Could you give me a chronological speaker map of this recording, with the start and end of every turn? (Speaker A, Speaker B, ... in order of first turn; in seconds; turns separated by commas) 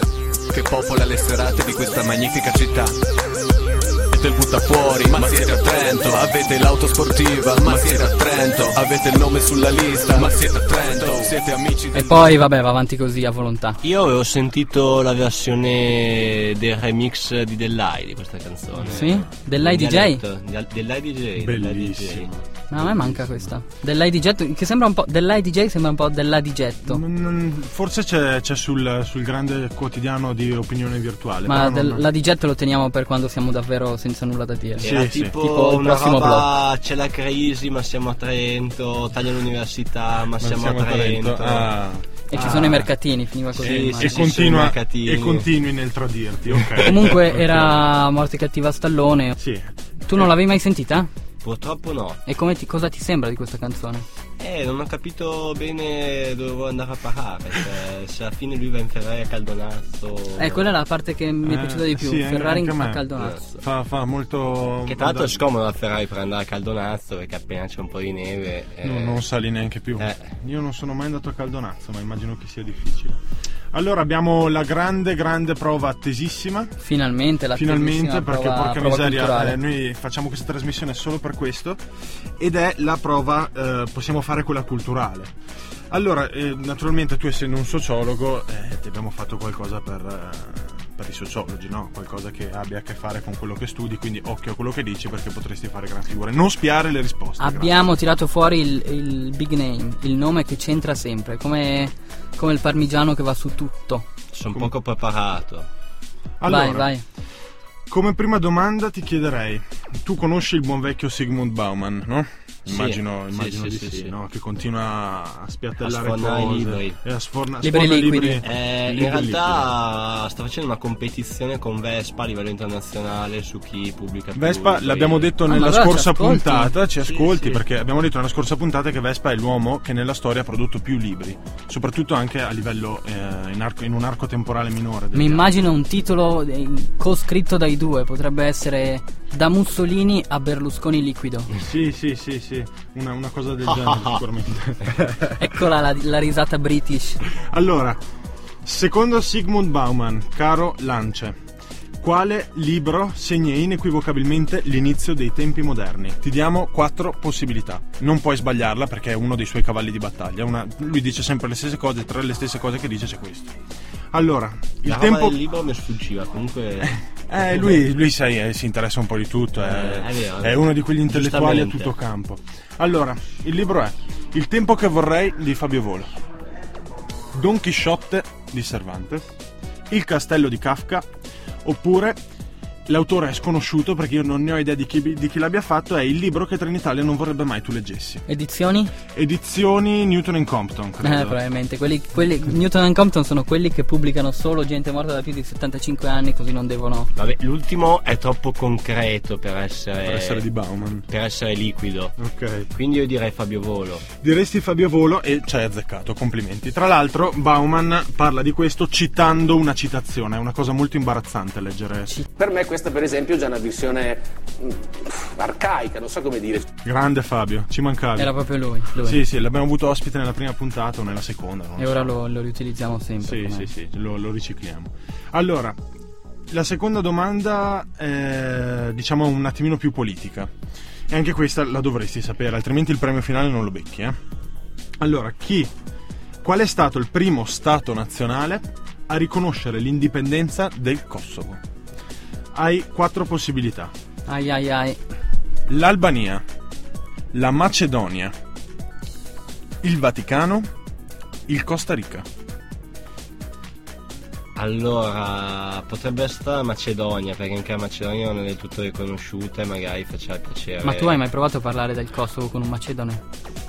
Speaker A: 0.5-3.0, Speaker A: 4.1-12.3, Speaker B: 11.9-13.8, Speaker C: 13.8-22.4, Speaker D: 18.8-19.2, Speaker B: 18.9-20.2, Speaker D: 21.4-23.5, Speaker B: 22.7-27.0, Speaker D: 26.9-32.0, Speaker B: 31.4-36.5, Speaker C: 34.8-41.7, Speaker D: 34.8-35.4, Speaker D: 40.4-42.9, Speaker B: 42.3-44.2, Speaker C: 43.6-45.5, Speaker D: 43.6-47.9, Speaker B: 46.8-49.4, Speaker D: 49.4-50.3, Speaker B: 50.0-51.1, Speaker C: 51.4-52.2, Speaker B: 52.2-54.0, Speaker C: 54.4-60.7, Speaker B: 60.4-63.4, Speaker D: 61.4-65.4, Speaker C: 63.2-63.5, Speaker C: 64.8-69.2, Speaker D: 68.8-73.2, Speaker C: 70.0-70.2, Speaker D: 73.7-76.7, Speaker B: 76.8-79.6, Speaker D: 77.5-81.8, Speaker D: 82.4-85.3, Speaker D: 85.9-97.8, Speaker B: 97.4-104.1, Speaker C: 104.3-105.7, Speaker D: 106.4-106.9, Speaker B: 106.5-107.0, Speaker D: 107.9-119.7, Speaker C: 112.7-114.1, Speaker C: 115.8-117.0, Speaker B: 117.6-118.4, Speaker C: 118.4-125.3, Speaker D: 124.3-135.5, Speaker B: 125.5-126.7, Speaker C: 127.2-127.6, Speaker B: 135.1-141.5, Speaker D: 141.6-145.4, Speaker C: 143.8-144.2, Speaker B: 145.4-147.2, Speaker D: 147.3-148.0, Speaker D: 148.6-151.4, Speaker D: 152.0-163.6, Speaker D: 164.1-165.4, Speaker C: 164.8-167.8, Speaker D: 166.8-176.1, Speaker C: 169.6-171.9, Speaker D: 177.3-179.3, Speaker D: 179.9-181.1, Speaker D: 181.6-182.2, Speaker D: 182.8-188.2, Speaker B: 188.3-188.9, Speaker D: 189.1-191.4, Speaker B: 191.0-197.1, Speaker C: 197.2-200.4, Speaker D: 200.0-201.1, Speaker C: 201.1-202.2, Speaker D: 202.2-202.7, Speaker C: 202.7-204.1, Speaker D: 204.2-212.1, Speaker E: 212.3-216.7, Speaker D: 216.8-218.3, Speaker B: 218.2-219.2, Speaker D: 218.9-222.1, Speaker B: 221.8-223.7, Speaker D: 223.2-225.8, Speaker D: 226.5-230.5, Speaker D: 231.1-234.2, Speaker D: 235.0-235.7, Speaker D: 236.4-241.6, Speaker D: 242.5-243.9, Speaker B: 244.3-245.0, Speaker D: 245.7-246.4, Speaker D: 247.3-248.3, Speaker D: 249.8-250.7, Speaker D: 251.5-252.2, Speaker C: 254.6-261.2, Speaker B: 260.8-263.2